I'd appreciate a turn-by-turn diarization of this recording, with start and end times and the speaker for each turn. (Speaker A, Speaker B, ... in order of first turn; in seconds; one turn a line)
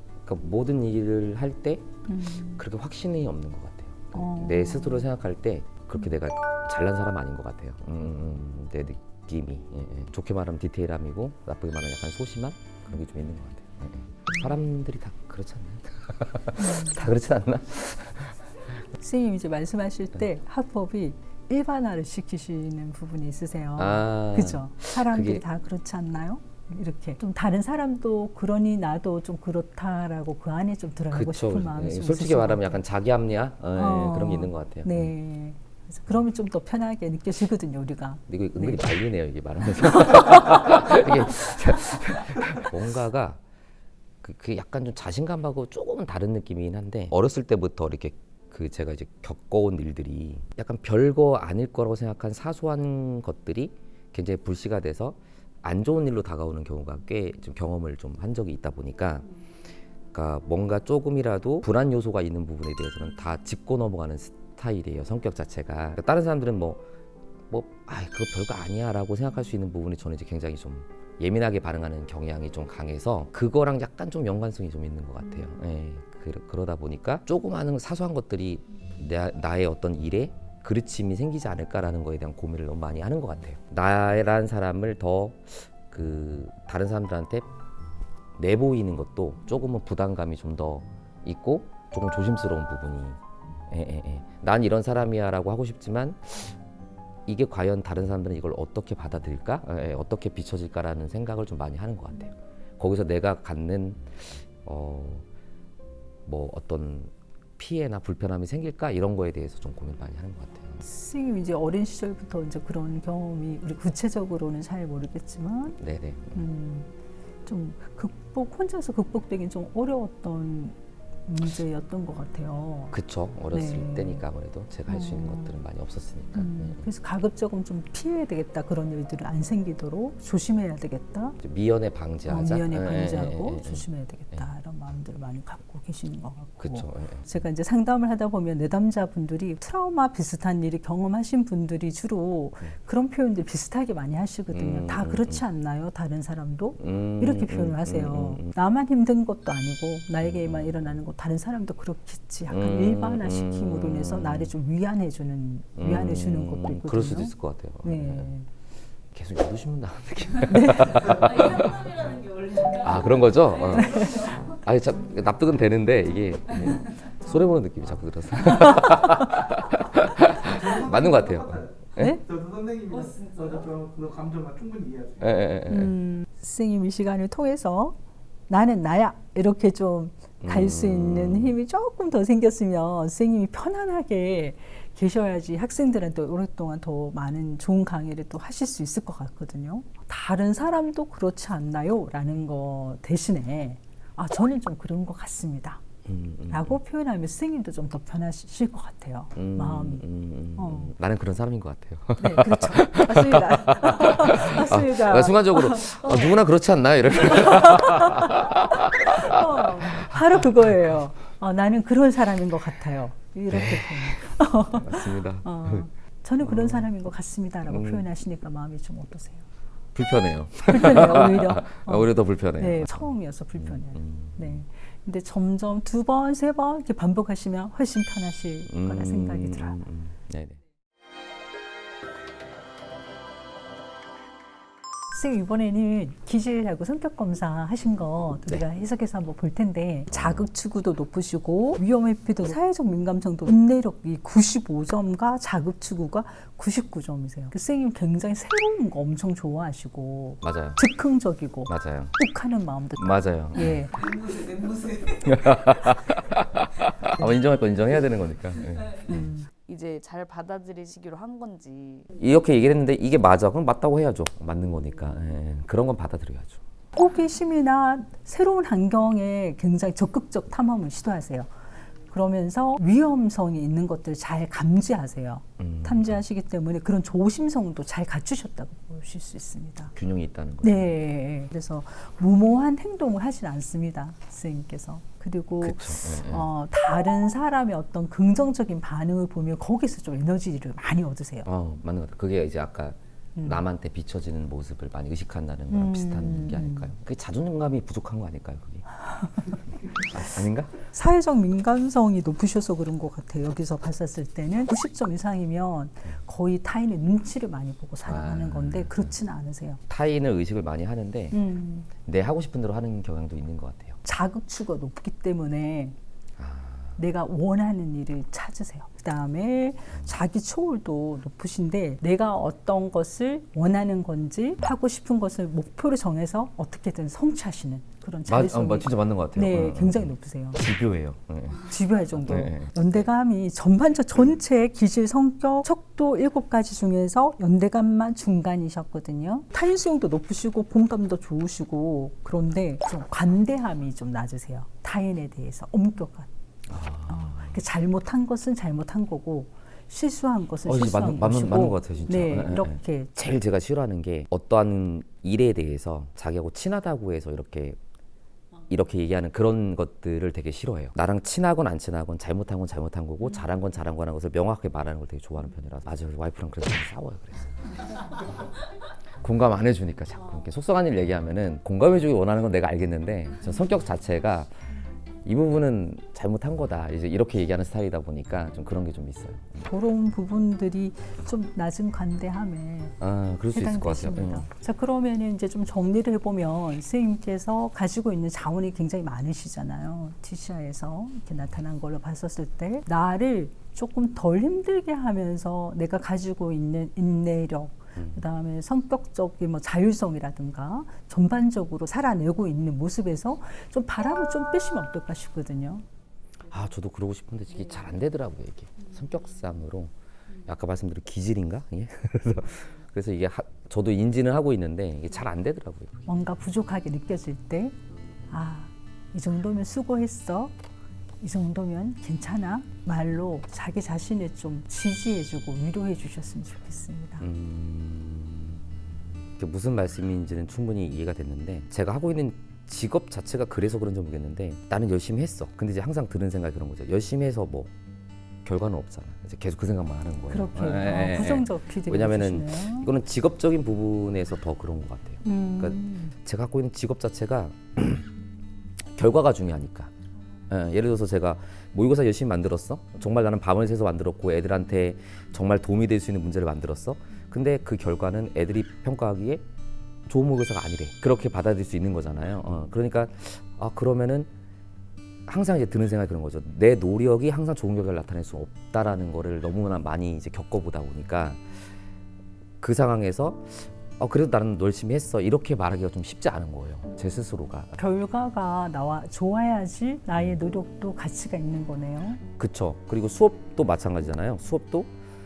Speaker A: 0.2-1.9
Speaker B: 2.1-2.6
Speaker A: 2.5-18.4
Speaker B: 4.1-5.1
Speaker B: 16.6-17.1
Speaker B: 19.0-32.8
Speaker A: 23.8-25.4
Speaker A: 31.1-35.1
Speaker B: 33.7-38.9
Speaker A: 38.3-43.4
Speaker A: 44.2-59.2
Speaker A: 60.1-66.8
Speaker A: 67.5-87.5
Speaker A: 88.4-96.5
Speaker A: 97.2-105.2
Speaker A: 106.2-110.8
Speaker B: 110.8-115.8
Speaker A: 115.8-116.4
Speaker B: 116.3-116.9
Speaker B: 117.5-122.9
Speaker A: 122.9-126.8
Speaker B: 123.5-124.2
Speaker B: 124.9-125.6
Speaker B: 126.3-131.4
Speaker A: 131.4-134.4
Speaker B: 132.2-158.5
Speaker A: 136.6-137.2
Speaker A: 144.5-145.4
Speaker A: 146.8-148.5
Speaker A: 150.2-150.9
Speaker A: 152.5-154.5
Speaker A: 155.8-158.3
Speaker A: 159.1-162.0
Speaker B: 160.5-161.1
Speaker C: 161.0-164.5
Speaker A: 162.7-172.1
Speaker B: 163.7-164.4
Speaker D: 170.4-175.5
Speaker C: 172.9-173.7
Speaker A: 175.2-175.9
Speaker B: 175.7-178.0
Speaker B: 178.5-195.8
Speaker A: 180.4-181.6
Speaker A: 196.1-196.8
Speaker B: 196.5-200.0
Speaker A: 199.3-210.7
Speaker B: 200.6-200.9
Speaker B: 202.2-206.3
Speaker B: 207.2-219.4
Speaker A: 213.5-215.8
Speaker A: 216.4-216.9
Speaker A: 217.7-218.1
Speaker A: 219.9-224.6
Speaker B: 220.7-229.8
Speaker A: 228.7-230.6
Speaker B: 235.1-253.9
Speaker A: 240.1-240.5
Speaker A: 250.4-250.8
Speaker A: 251.7-252.1
Speaker A: 253.0-253.9
Speaker C: 254.0-256.0
Speaker A: 255.2-259.2
Speaker B: 259.1-259.5
Speaker C: 259.6-262.1
Speaker A: 262.2-266.6
Speaker B: 266.9-271.5
Speaker B: 272.1-279.9
Speaker A: 275.6-276.1
Speaker A: 279.9-280.9
Speaker B: 280.6-291.5
Speaker A: 285.6-286.5
Speaker A: 291.4-298.8
Speaker B: 293.4-293.6
Speaker B: 295.7-296.9
Speaker A: 300.0-300.7
Speaker B: 300.9-309.8
Speaker A: 308.1-309.1
Speaker A: 309.9-311.4
Speaker B: 311.3-311.9
Speaker A: 312.0-314.0
Speaker B: 314.0-315.9
Speaker A: 316.4-317.0
Speaker B: 317.0-330.6
Speaker A: 328.3-333.1
Speaker B: 331.6-346.3
Speaker A: 346.7-347.6
Speaker B: 347.1-353.1
Speaker A: 350.6-357.8
Speaker A: 358.7-367.7
Speaker A: 369.2-374.5
Speaker A: 375.2-379.6
Speaker B: 379.6-383.0
Speaker A: 383.0-384.5
Speaker B: 383.5-405.8
Speaker A: 406.5-409.9
Speaker A: 410.4-416.1
Speaker B: 416.1-417.8
Speaker B: 418.3-420.5
Speaker B: 421.2-427.3
Speaker A: 427.2-437.7
Speaker A: 438.4-448.1
Speaker B: 440.3-442.9
Speaker B: 445.2-446.1
Speaker A: 448.9-449.9
Speaker A: 450.5-459.4
Speaker A: 460.1-464.3
Speaker A: 465.2-471.5
Speaker A: 472.6-477.8
Speaker B: 477.8-482.2
Speaker A: 482.4-484.9